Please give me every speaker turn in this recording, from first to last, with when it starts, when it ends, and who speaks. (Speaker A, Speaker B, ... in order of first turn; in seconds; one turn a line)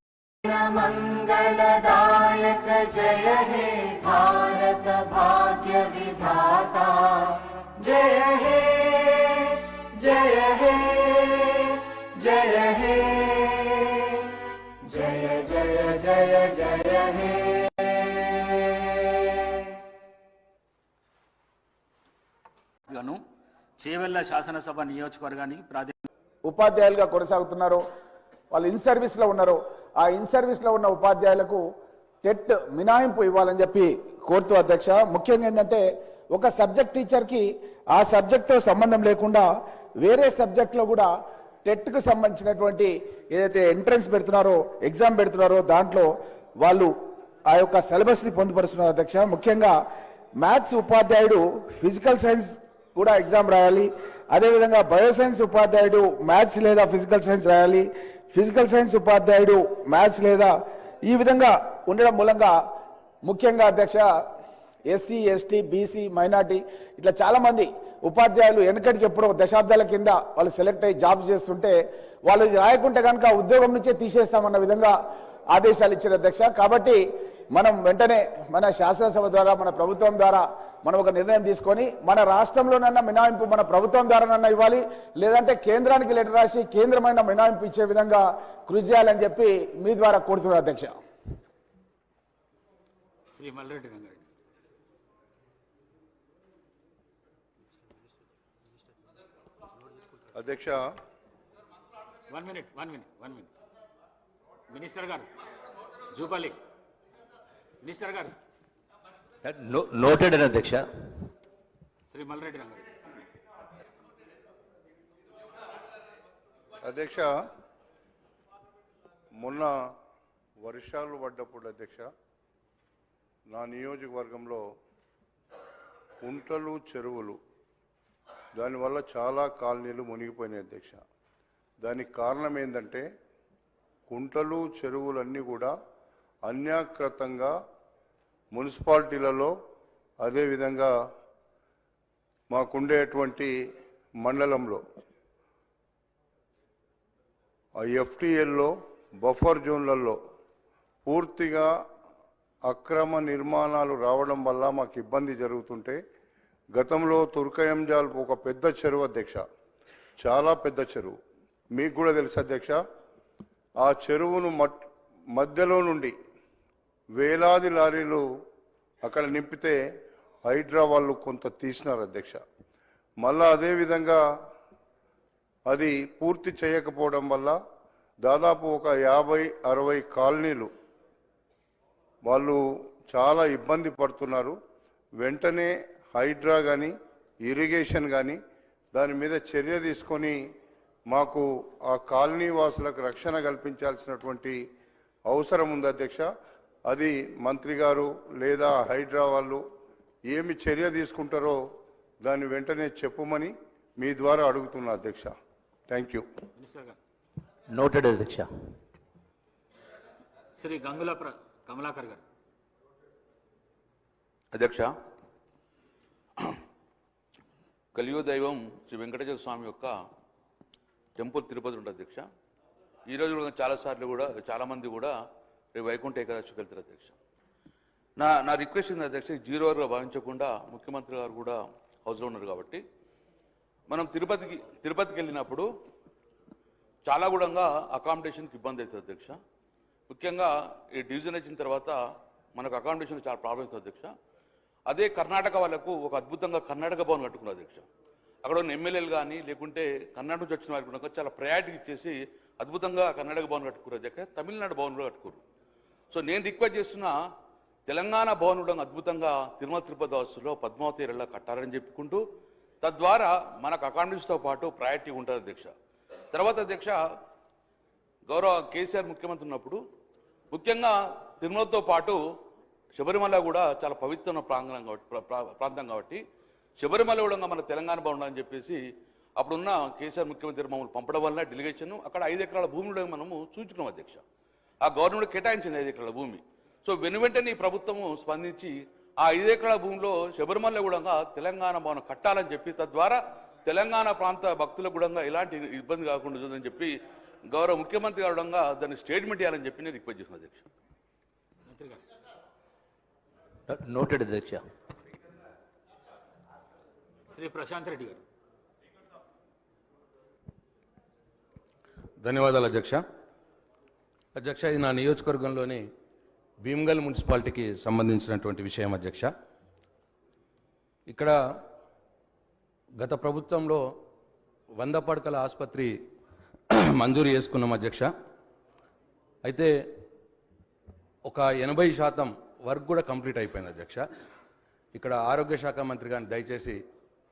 Speaker A: 0.4-14.2
Speaker A: 14.8-19.1
Speaker B: 22.9-23.2
Speaker B: 23.8-26.0
Speaker C: 26.4-27.8
Speaker C: 28.5-31.6
Speaker C: 32.2-39.5
Speaker C: 40.0-41.1
Speaker C: 41.6-46.9
Speaker C: 47.5-49.8
Speaker C: 50.4-60.5
Speaker C: 61.0-62.5
Speaker C: 63.2-64.0
Speaker C: 64.9-74.9
Speaker C: 75.5-77.0
Speaker C: 77.5-91.0
Speaker B: 93.3-94.2
Speaker D: 100.3-100.8
Speaker B: 102.3-103.5
Speaker B: 104.7-105.3
Speaker B: 106.1-106.6
Speaker B: 107.8-108.3
Speaker E: 109.4-110.9
Speaker B: 112.1-112.8
Speaker D: 116.8-117.3
Speaker D: 119.4-119.7
Speaker D: 120.6-122.1
Speaker D: 123.5-124.6
Speaker D: 126.2-127.4
Speaker D: 128.5-131.0
Speaker D: 131.8-133.0
Speaker D: 134.1-135.7
Speaker D: 136.4-137.6
Speaker D: 138.5-139.5
Speaker D: 140.2-140.9
Speaker D: 142.5-143.5
Speaker D: 144.2-144.8
Speaker D: 147.8-150.2
Speaker D: 151.0-151.7
Speaker D: 152.7-156.0
Speaker D: 156.7-159.4
Speaker D: 160.2-161.2
Speaker D: 161.7-162.8
Speaker D: 163.8-164.8
Speaker D: 165.3-166.1
Speaker D: 167.2-168.2
Speaker D: 169.0-169.8
Speaker D: 170.4-172.4
Speaker D: 173.2-174.2
Speaker D: 175.7-177.6
Speaker D: 178.2-180.7
Speaker D: 182.2-184.6
Speaker D: 185.2-186.9
Speaker D: 187.4-188.4
Speaker D: 188.9-190.4
Speaker D: 191.1-194.6
Speaker D: 195.3-196.2
Speaker D: 196.9-199.6
Speaker D: 200.3-201.6
Speaker D: 202.2-205.3
Speaker D: 205.9-206.2
Speaker B: 206.6-207.0
Speaker E: 207.7-208.5
Speaker B: 210.6-212.2
Speaker F: 214.5-214.9
Speaker F: 217.9-219.9
Speaker F: 221.2-222.2
Speaker F: 223.1-225.2
Speaker F: 225.7-227.1
Speaker F: 228.2-232.8
Speaker F: 233.9-235.7
Speaker F: 237.0-239.4
Speaker F: 240.1-242.0
Speaker F: 242.5-244.1
Speaker F: 244.9-247.9
Speaker F: 248.4-255.4
Speaker F: 256.1-257.1
Speaker F: 257.9-262.2
Speaker F: 262.8-265.7
Speaker F: 266.3-267.0
Speaker F: 268.2-269.8
Speaker F: 270.5-272.2
Speaker F: 272.9-276.2
Speaker F: 276.8-278.8
Speaker F: 279.4-284.2
Speaker F: 284.8-300.7
Speaker B: 301.7-302.0
Speaker E: 303.7-304.6
Speaker B: 307.3-308.2
Speaker G: 312.2-313.0
Speaker G: 314.4-315.8
Speaker G: 316.6-319.3
Speaker G: 321.1-321.3
Speaker G: 323.0-323.8
Speaker G: 324.8-325.9
Speaker G: 326.7-328.1
Speaker G: 331.3-334.0
Speaker G: 334.9-336.8